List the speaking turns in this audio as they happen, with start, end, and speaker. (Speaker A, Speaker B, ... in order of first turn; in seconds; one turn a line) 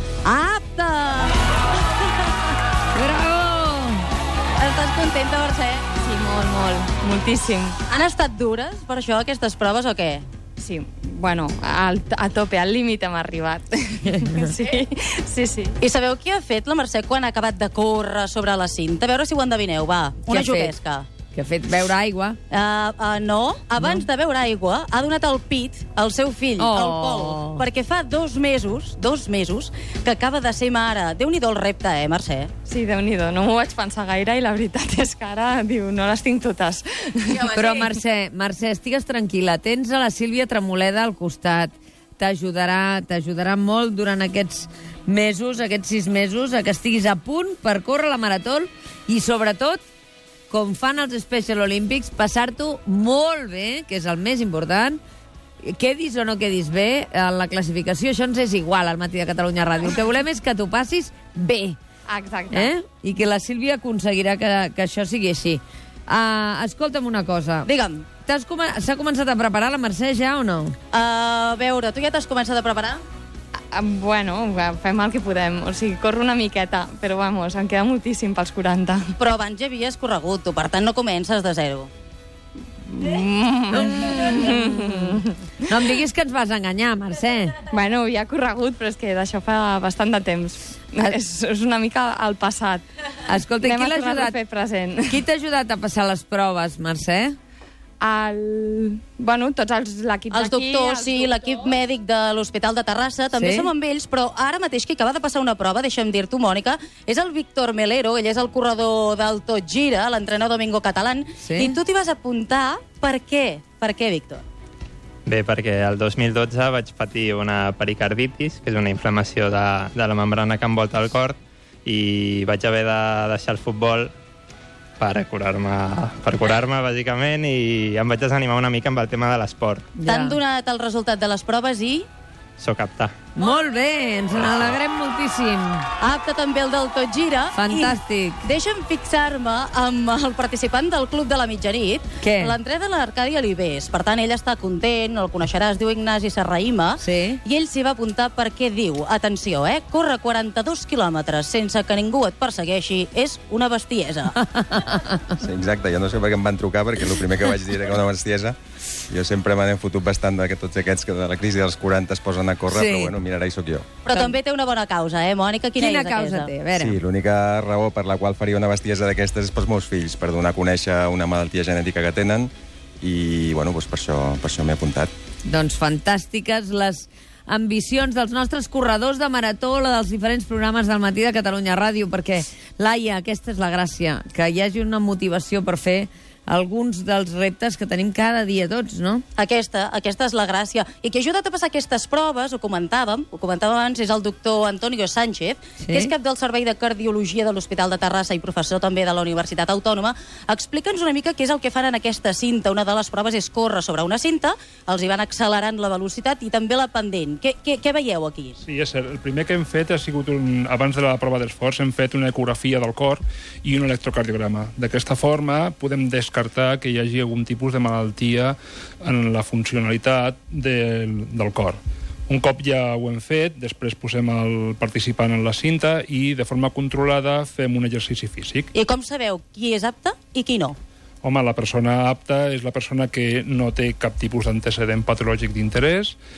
Speaker A: 0.2-2.6
Speaker B: 2.9-4.0
Speaker A: 4.6-5.9
Speaker C: 6.0-7.8
Speaker A: 7.9-10.2
Speaker C: 10.6-15.8
Speaker A: 15.8-21.1
Speaker B: 20.3-20.7
Speaker B: 21.3-22.4
Speaker A: 22.5-32.5
Speaker B: 26.6-27.6
Speaker C: 32.7-37.5
Speaker A: 37.3-37.8
Speaker B: 37.5-49.8
Speaker B: 50.5-55.0
Speaker B: 55.6-61.8
Speaker C: 62.1-62.7
Speaker B: 62.5-67.7
Speaker A: 67.7-68.0
Speaker B: 68.2-70.8
Speaker A: 70.9-73.0
Speaker C: 73.7-79.1
Speaker A: 79.2-81.9
Speaker C: 82.9-85.3
Speaker B: 83.8-85.0
Speaker B: 85.7-87.6
Speaker C: 87.7-92.9
Speaker B: 93.3-94.3
Speaker C: 93.6-95.2
Speaker B: 95.1-97.4
Speaker C: 98.0-101.8
Speaker A: 100.3-114.4
Speaker B: 103.3-103.7
Speaker B: 111.4-111.7
Speaker D: 115.3-124.1
Speaker D: 125.0-129.9
Speaker B: 130.0-130.4
Speaker A: 130.1-132.1
Speaker D: 132.6-133.2
Speaker B: 133.3-135.9
Speaker A: 136.0-154.3
Speaker B: 137.5-138.4
Speaker B: 142.2-142.5
Speaker B: 147.0-147.4
Speaker B: 154.4-155.2
Speaker E: 155.4-158.6
Speaker E: 159.1-163.9
Speaker B: 162.7-163.2
Speaker A: 164.1-166.5
Speaker B: 165.8-167.0
Speaker E: 166.7-175.1
Speaker B: 175.5-189.2
Speaker A: 189.4-208.6
Speaker B: 195.8-196.1
Speaker F: 208.7-228.7
Speaker A: 228.7-230.8
Speaker F: 231.2-236.2